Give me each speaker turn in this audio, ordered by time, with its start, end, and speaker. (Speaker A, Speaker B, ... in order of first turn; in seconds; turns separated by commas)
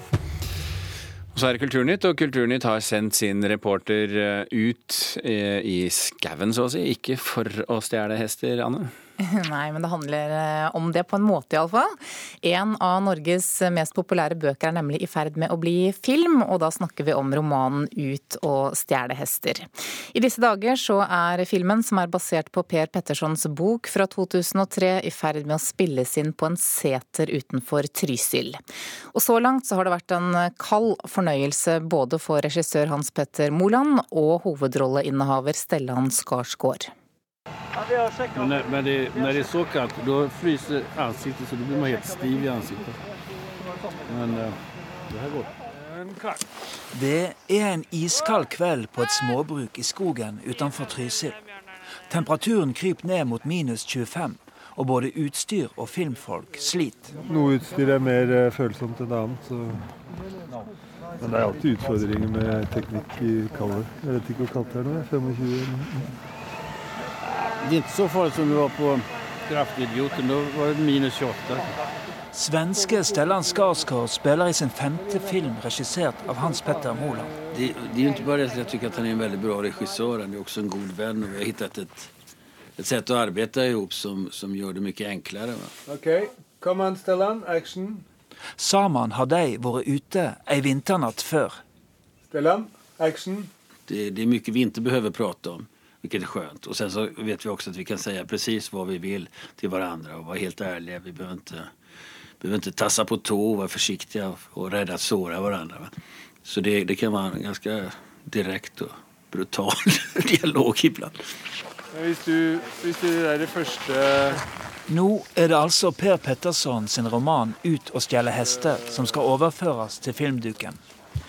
Speaker A: 1.3-8.9, Speaker B: 9.2-28.6, Speaker B: 29.1-36.9, Speaker C: 38.4-43.0, Speaker C: 44.1-44.5, Speaker C: 45.1-45.5, Speaker D: 46.9-51.4, Speaker D: 52.1-57.1, Speaker E: 57.2-59.9, Speaker E: 61.2-66.1, Speaker C: 67.6-71.7, Speaker D: 72.3-77.4, Speaker F: 77.5-82.1, Speaker F: 82.8-85.7, Speaker D: 88.6-91.6, Speaker F: 93.9-101.7, Speaker F: 102.4-105.9, Speaker F: 106.5-111.1, Speaker D: 114.9-120.8